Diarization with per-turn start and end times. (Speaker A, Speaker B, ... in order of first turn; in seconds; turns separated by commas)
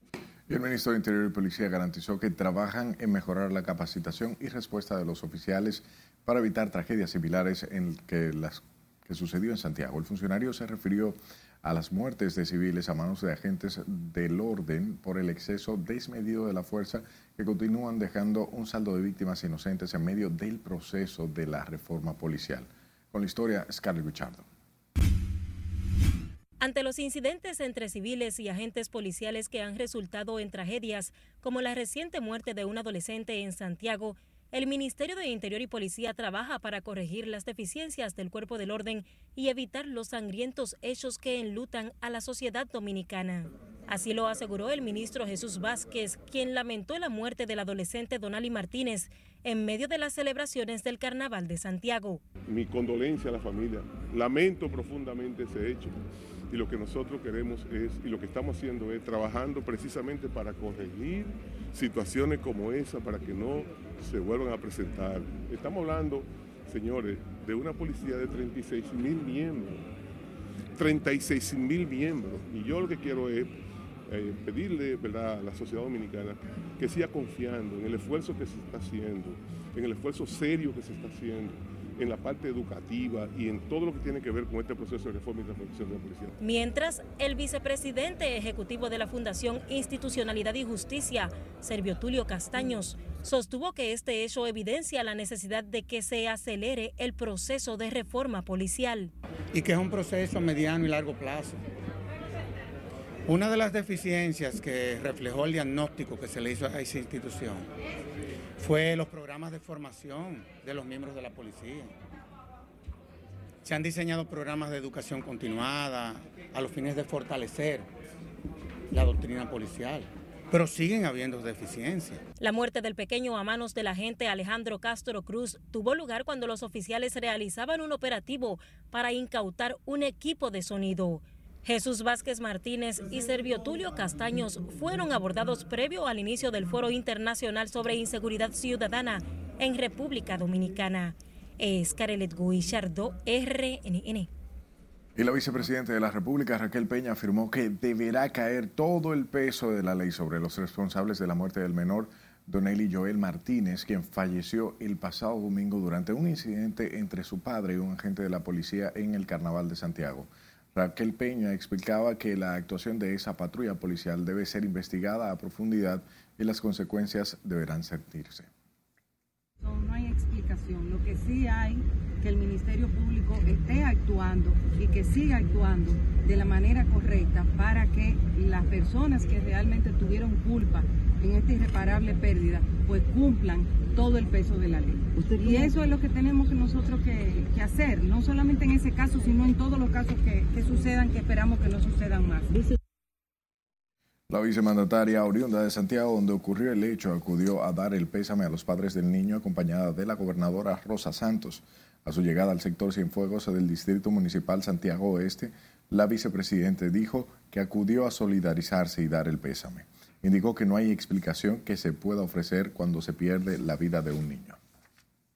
Speaker A: 0.5-24.5, Speaker B: 26.6-52.2, Speaker C: 52.5-56.0, Speaker C: 56.5-69.8, Speaker C: 70.8-73.5, Speaker C: 74.1-86.3, Speaker B: 86.4-99.1, Speaker D: 99.5-101.6, Speaker D: 103.3-107.7, Speaker D: 108.6-111.9, Speaker D: 113.6-117.9, Speaker D: 118.9-122.2, Speaker B: 122.4-144.3, Speaker A: 145.2-168.5, Speaker E: 169.6-192.5, Speaker A: 194.3-214.6